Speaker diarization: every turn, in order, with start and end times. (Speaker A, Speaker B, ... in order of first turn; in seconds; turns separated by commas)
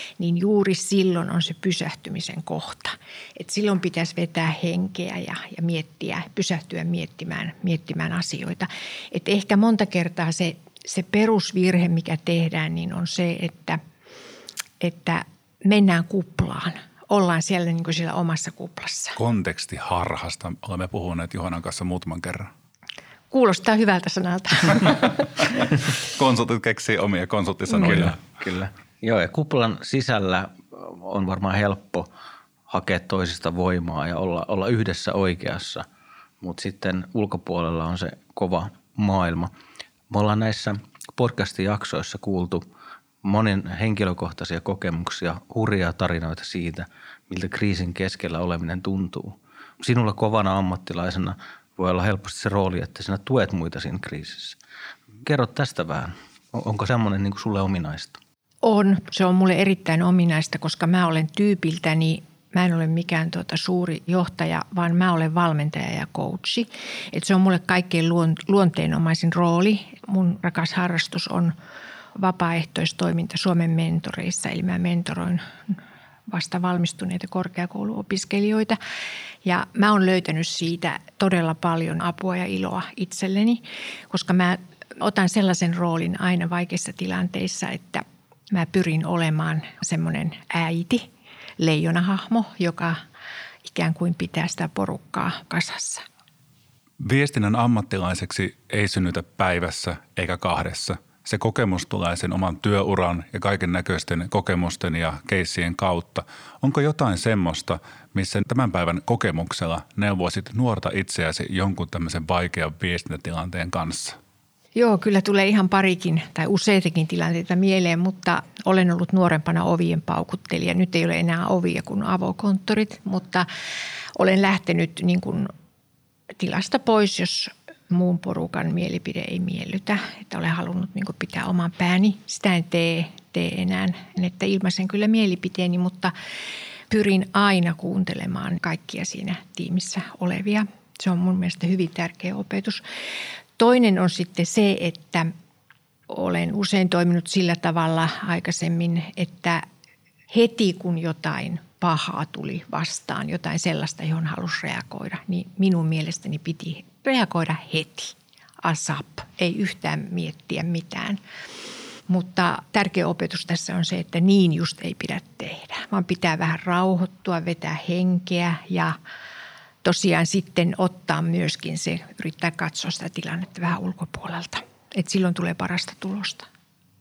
Speaker A: 0.2-13.8, Speaker A: 14.8-19.2, Speaker B: 19.2-22.5, Speaker A: 23.3-25.2, Speaker B: 26.1-28.2, Speaker C: 27.8-32.1, Speaker C: 32.7-35.8, Speaker C: 36.4-39.5, Speaker C: 40.1-42.6, Speaker C: 43.2-54.6, Speaker C: 55.2-58.2, Speaker A: 58.6-71.5, Speaker A: 72.1-75.8, Speaker A: 76.3-78.8, Speaker A: 79.4-91.1, Speaker A: 91.6-93.0, Speaker A: 93.6-96.0, Speaker B: 97.0-114.2, Speaker A: 114.7-123.5, Speaker A: 124.1-125.5, Speaker A: 126.4-136.1, Speaker A: 136.9-142.8, Speaker A: 143.6-145.3, Speaker A: 146.1-149.6, Speaker A: 150.3-161.2, Speaker A: 162.1-168.9, Speaker A: 169.8-176.4